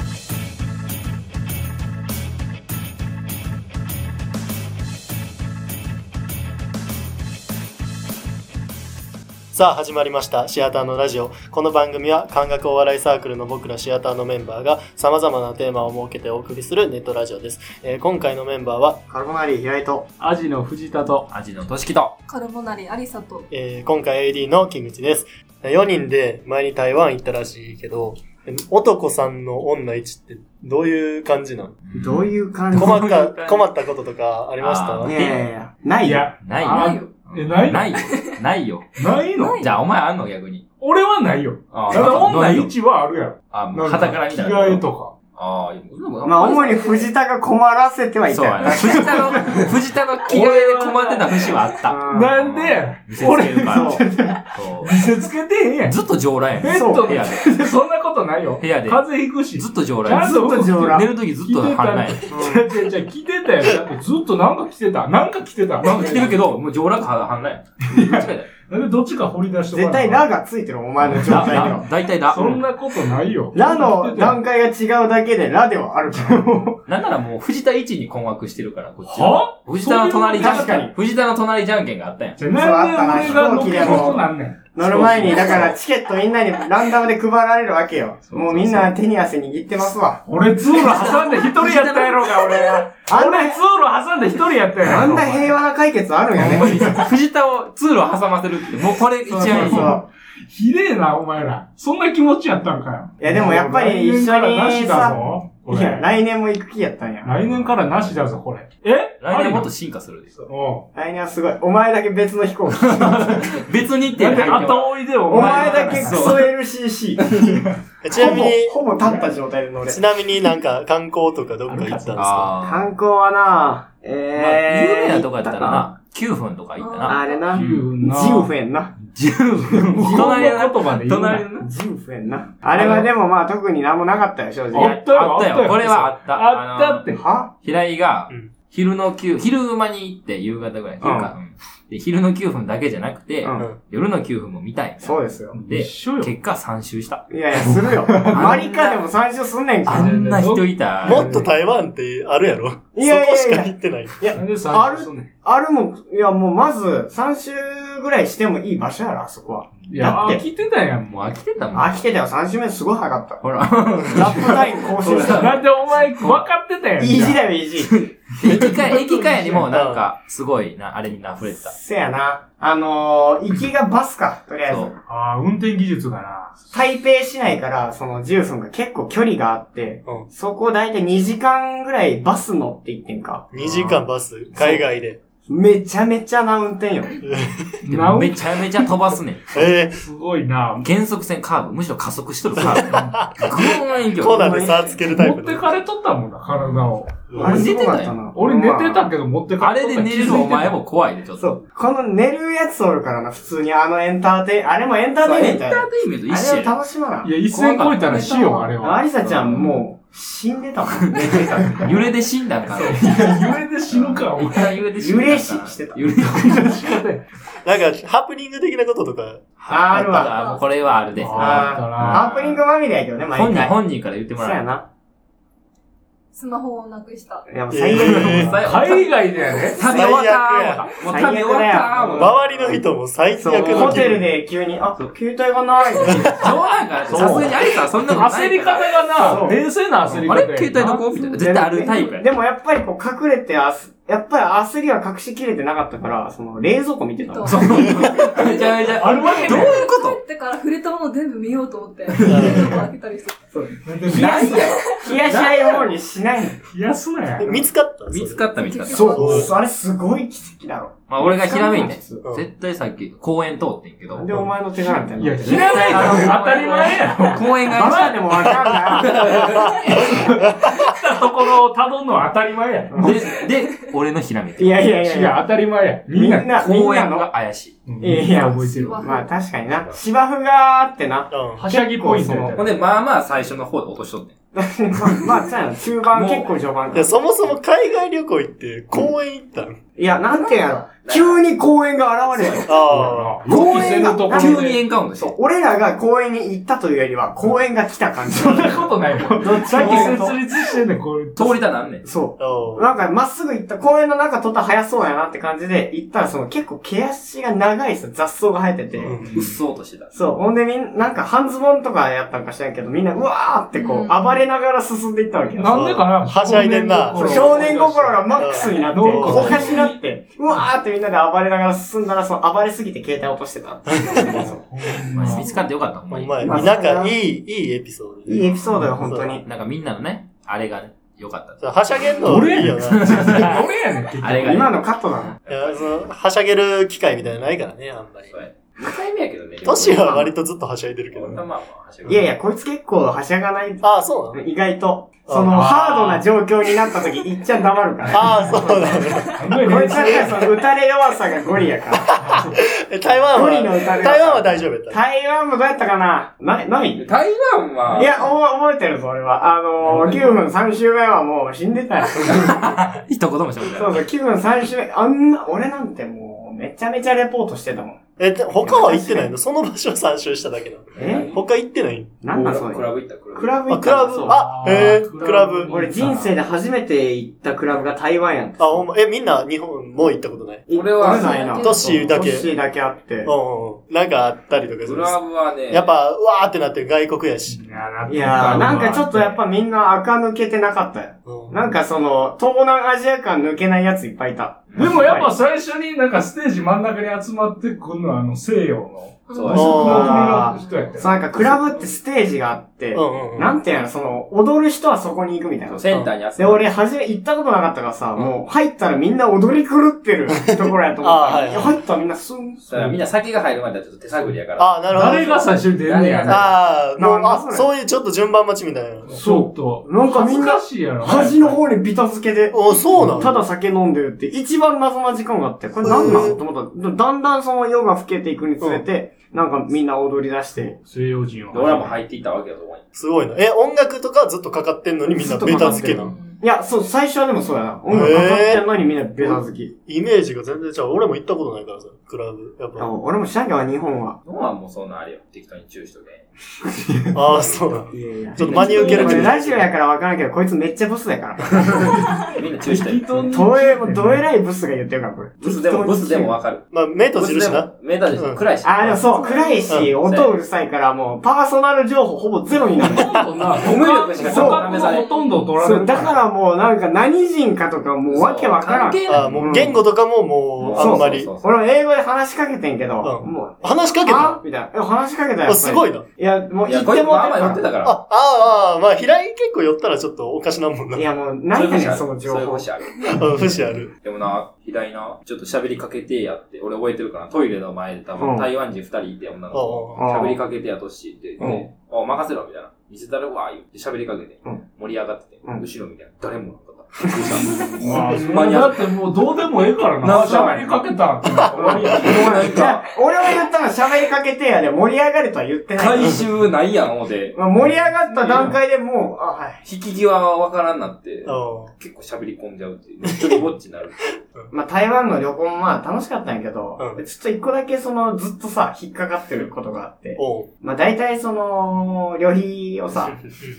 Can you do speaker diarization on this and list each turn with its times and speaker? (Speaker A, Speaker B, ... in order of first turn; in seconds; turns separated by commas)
Speaker A: 9.5-19.0, Speaker B: 19.1-20.1, Speaker C: 20.2-21.3, Speaker D: 21.3-22.1, Speaker E: 22.3-23.5, Speaker A: 23.5-31.8, Speaker D: 31.9-33.7, Speaker B: 31.9-33.0, Speaker A: 32.7-35.1, Speaker D: 34.6-35.5, Speaker B: 35.0-36.3, Speaker C: 36.0-38.0, Speaker D: 36.4-39.0, Speaker E: 36.7-37.3, Speaker E: 37.9-38.4, Speaker C: 39.0-39.6, Speaker E: 39.3-39.8, Speaker D: 39.6-40.6, Speaker C: 40.8-45.1, Speaker D: 41.7-42.8, Speaker D: 43.5-46.7, Speaker B: 46.2-49.3, Speaker E: 46.4-47.1, Speaker D: 48.3-54.9, Speaker C: 48.7-49.7, Speaker C: 50.2-56.0, Speaker B: 51.9-52.3, Speaker B: 53.7-54.4, Speaker D: 55.9-57.6, Speaker C: 56.6-66.5, Speaker B: 56.7-57.1, Speaker D: 58.6-60.3, Speaker B: 60.1-61.1, Speaker D: 60.8-62.3, Speaker B: 62.3-62.7, Speaker D: 65.8-68.5, Speaker C: 67.9-70.3, Speaker B: 69.7-71.9, Speaker D: 71.0-72.6, Speaker C: 71.1-71.8, Speaker C: 72.3-74.4, Speaker B: 73.5-76.8, Speaker D: 76.9-82.4, Speaker C: 79.1-80.8, Speaker B: 80.3-80.9, Speaker C: 82.4-84.7, Speaker B: 82.5-90.2, Speaker D: 83.7-84.0, Speaker D: 84.8-85.7, Speaker D: 88.3-88.9, Speaker C: 90.3-95.5, Speaker D: 90.7-92.8, Speaker B: 93.0-93.6, Speaker B: 94.8-97.1, Speaker D: 96.3-100.0, Speaker C: 96.4-96.9, Speaker B: 99.3-100.1, Speaker C: 99.3-106.1, Speaker B: 103.2-107.4, Speaker C: 107.2-109.7, Speaker D: 107.5-108.2, Speaker D: 109.2-110.4, Speaker C: 110.4-110.8, Speaker B: 111.0-113.6, Speaker D: 112.7-116.5, Speaker C: 114.2-116.3, Speaker B: 115.3-117.4, Speaker C: 117.4-117.8, Speaker A: 118.0-119.0, Speaker B: 118.1-120.0, Speaker A: 119.8-122.5, Speaker C: 121.7-122.3, Speaker D: 122.2-122.9, Speaker B: 122.6-125.9, Speaker D: 124.3-127.2, Speaker E: 126.8-127.7, Speaker B: 127.1-128.9, Speaker C: 127.5-128.5, Speaker C: 129.2-131.5, Speaker D: 129.2-131.7, Speaker B: 129.8-130.4, Speaker B: 131.6-135.0, Speaker C: 132.8-133.1, Speaker D: 132.8-133.0, Speaker C: 134.7-137.2, Speaker D: 134.7-137.1, Speaker B: 137.1-137.5, Speaker D: 137.6-147.8, Speaker B: 141.0-141.3, Speaker B: 145.0-145.6, Speaker C: 145.5-146.3, Speaker B: 147.3-150.2, Speaker C: 148.1-148.6, Speaker D: 148.3-149.0, Speaker D: 149.8-151.3, Speaker C: 149.9-151.5, Speaker A: 151.1-154.2, Speaker B: 152.9-160.4, Speaker C: 154.3-155.3, Speaker C: 159.9-161.4, Speaker D: 161.1-162.0, Speaker B: 161.7-163.4, Speaker D: 163.4-166.4, Speaker B: 164.1-165.6, Speaker C: 165.2-167.4, Speaker B: 167.0-168.1, Speaker D: 168.3-171.7, Speaker C: 168.4-169.7, Speaker A: 169.7-170.1, Speaker B: 171.6-175.0, Speaker C: 175.1-176.6, Speaker B: 176.7-183.5, Speaker A: 183.5-185.2, Speaker D: 183.6-184.1, Speaker B: 185.5-187.2, Speaker A: 187.2-187.8, Speaker C: 187.9-188.4, Speaker D: 187.9-189.7, Speaker A: 189.5-190.0, Speaker C: 189.9-190.9, Speaker D: 190.8-194.5, Speaker A: 192.6-195.8, Speaker C: 192.7-193.2, Speaker B: 194.2-195.0, Speaker C: 195.0-197.6, Speaker D: 196.5-198.2, Speaker A: 197.3-197.7, Speaker B: 197.4-199.1, Speaker C: 198.3-200.8, Speaker D: 199.6-201.6, Speaker B: 201.4-207.4, Speaker D: 205.2-206.8, Speaker C: 207.2-209.1, Speaker D: 207.5-208.3, Speaker E: 208.0-208.7, Speaker B: 208.8-212.0, Speaker D: 209.2-209.8, Speaker D: 211.1-216.8, Speaker C: 212.7-214.8, Speaker B: 215.0-216.7, Speaker C: 216.2-217.2, Speaker A: 217.6-219.4, Speaker B: 219.6-220.4, Speaker D: 219.7-222.6, Speaker E: 220.1-220.7, Speaker C: 221.2-222.2, Speaker B: 221.3-223.7, Speaker D: 223.3-224.6, Speaker B: 224.4-224.9, Speaker E: 226.3-227.5, Speaker B: 227.5-228.7, Speaker A: 227.7-228.6, Speaker D: 227.9-232.4, Speaker C: 228.6-230.2, Speaker A: 229.8-230.9, Speaker B: 231.0-232.3, Speaker A: 232.2-234.2, Speaker B: 233.4-236.4, Speaker C: 233.5-234.1, Speaker D: 233.6-234.1, Speaker A: 236.1-236.4, Speaker D: 236.3-239.5, Speaker B: 237.1-237.6, Speaker A: 237.2-237.6, Speaker C: 238.1-241.0, Speaker B: 239.2-240.2, Speaker D: 240.2-242.3, Speaker B: 241.4-247.8, Speaker E: 247.2-253.4, Speaker C: 247.4-249.8, Speaker D: 247.5-250.2, Speaker C: 252.1-252.8, Speaker A: 252.2-252.8, Speaker B: 253.5-253.8, Speaker C: 253.8-255.9, Speaker D: 254.1-255.3, Speaker E: 254.2-255.1, Speaker B: 255.0-256.6, Speaker C: 256.7-257.5, Speaker A: 257.4-258.4, Speaker B: 257.4-257.7, Speaker D: 258.1-259.1, Speaker E: 258.5-259.4, Speaker C: 258.9-259.4, Speaker B: 258.9-262.2, Speaker A: 259.1-259.5, Speaker D: 261.1-264.4, Speaker B: 264.1-266.9, Speaker C: 265.1-267.5, Speaker D: 265.5-268.3, Speaker B: 267.6-269.6, Speaker A: 268.9-270.8, Speaker D: 268.9-269.7, Speaker C: 269.9-273.3, Speaker B: 272.9-273.2, Speaker D: 273.0-274.9, Speaker B: 274.6-275.4, Speaker C: 275.0-276.5, Speaker B: 276.1-277.3, Speaker D: 276.6-277.8, Speaker C: 277.9-279.1, Speaker B: 278.0-282.6, Speaker E: 278.3-279.3, Speaker D: 279.7-280.0, Speaker A: 281.3-281.6, Speaker C: 281.6-282.8, Speaker D: 282.6-284.3, Speaker B: 284.5-287.2, Speaker D: 286.1-287.0, Speaker A: 286.9-289.8, Speaker B: 290.0-292.9, Speaker D: 290.3-291.4, Speaker D: 292.3-292.7, Speaker A: 292.6-293.4, Speaker C: 292.9-294.8, Speaker B: 293.5-300.4, Speaker D: 293.5-295.4, Speaker C: 298.3-301.7, Speaker D: 299.7-300.2, Speaker D: 301.4-302.1, Speaker B: 302.0-309.2, Speaker A: 302.4-302.9, Speaker A: 309.0-309.4, Speaker C: 309.2-309.4, Speaker D: 309.3-310.1, Speaker B: 310.1-315.9, Speaker E: 313.8-314.4, Speaker C: 315.6-320.0, Speaker A: 315.7-317.6, Speaker B: 317.1-324.7, Speaker A: 318.4-319.8, Speaker C: 324.2-325.5, Speaker D: 325.1-326.8, Speaker E: 325.3-325.6, Speaker A: 326.1-329.4, Speaker B: 326.4-327.1, Speaker B: 328.3-329.4, Speaker D: 329.4-334.8, Speaker A: 331.6-333.6, Speaker C: 332.2-334.8, Speaker B: 334.4-335.4, Speaker D: 335.4-336.1, Speaker A: 335.5-338.4, Speaker D: 338.3-340.3, Speaker A: 339.6-341.4, Speaker D: 341.1-342.3, Speaker B: 342.1-352.5, Speaker A: 343.8-344.4, Speaker A: 345.3-345.6, Speaker C: 345.5-346.2, Speaker A: 348.1-349.4, Speaker C: 349.4-350.3, Speaker A: 350.0-350.3, Speaker C: 352.2-352.6, Speaker A: 352.2-355.0, Speaker B: 353.3-357.1, Speaker D: 357.0-358.2, Speaker B: 357.9-362.8, Speaker C: 359.8-360.4, Speaker D: 362.3-364.0, Speaker B: 363.6-368.0, Speaker A: 368.2-372.2, Speaker B: 368.6-369.3, Speaker B: 371.0-371.3, Speaker D: 371.0-371.4, Speaker B: 372.2-374.5, Speaker D: 372.3-373.6, Speaker A: 373.7-375.8, Speaker C: 374.3-376.3, Speaker B: 375.6-378.9, Speaker A: 378.6-380.6, Speaker B: 380.7-383.3, Speaker D: 380.7-381.4, Speaker E: 381.1-382.2, Speaker A: 381.4-382.5, Speaker A: 383.2-387.6, Speaker D: 384.8-386.0, Speaker C: 387.5-389.4, Speaker B: 388.1-395.3, Speaker A: 391.3-391.6, Speaker D: 394.7-395.2, Speaker C: 394.8-401.6, Speaker E: 399.3-401.0, Speaker D: 399.3-399.8, Speaker A: 399.5-400.2, Speaker B: 399.6-412.7, Speaker A: 402.9-403.6, Speaker D: 405.7-406.7, Speaker A: 410.3-411.8, Speaker D: 412.7-414.7, Speaker A: 414.6-415.5, Speaker C: 414.9-416.5, Speaker D: 415.8-416.5, Speaker A: 416.3-419.1, Speaker B: 417.0-417.7, Speaker C: 419.1-421.6, Speaker B: 419.1-422.6, Speaker A: 422.5-423.4, Speaker B: 423.1-430.8, Speaker A: 425.8-426.4, Speaker A: 428.6-428.9, Speaker C: 430.6-432.0, Speaker D: 431.5-432.8, Speaker A: 432.9-436.1, Speaker B: 435.1-439.7, Speaker C: 435.4-436.0, Speaker A: 437.9-438.7, Speaker A: 439.2-442.9, Speaker B: 442.8-444.2, Speaker D: 444.2-446.3, Speaker B: 446.6-447.1, Speaker A: 447.1-449.7, Speaker D: 447.2-449.4, Speaker B: 447.9-452.1, Speaker D: 451.7-453.2, Speaker C: 452.6-454.3, Speaker B: 453.3-456.4, Speaker D: 455.4-459.4, Speaker A: 456.7-458.4, Speaker B: 458.6-463.2, Speaker E: 459.1-459.8, Speaker A: 459.7-459.9, Speaker D: 460.0-460.4, Speaker C: 462.8-466.2, Speaker D: 463.6-465.2, Speaker B: 464.2-464.7, Speaker E: 464.3-465.6, Speaker B: 465.6-469.8, Speaker D: 468.1-469.7, Speaker A: 469.1-471.3, Speaker D: 470.6-471.5, Speaker B: 470.7-477.7, Speaker A: 473.0-474.4, Speaker A: 475.4-476.1, Speaker D: 476.6-478.0, Speaker A: 477.8-481.1, Speaker B: 481.0-482.7, Speaker D: 481.5-498.9, Speaker A: 483.1-483.9, Speaker B: 488.2-488.5, Speaker A: 489.5-490.0, Speaker B: 490.0-490.4, Speaker B: 491.4-491.6, Speaker B: 497.0-498.4, Speaker C: 497.7-502.6, Speaker D: 500.0-500.9, Speaker B: 500.2-500.7, Speaker A: 501.3-502.0, Speaker B: 501.5-506.2, Speaker D: 501.9-503.4, Speaker D: 505.8-507.4, Speaker B: 507.3-509.6, Speaker C: 508.2-508.5, Speaker D: 508.2-508.6, Speaker D: 509.6-514.2, Speaker A: 511.3-511.7, Speaker A: 513.2-513.5, Speaker B: 514.5-523.2, Speaker A: 520.2-520.5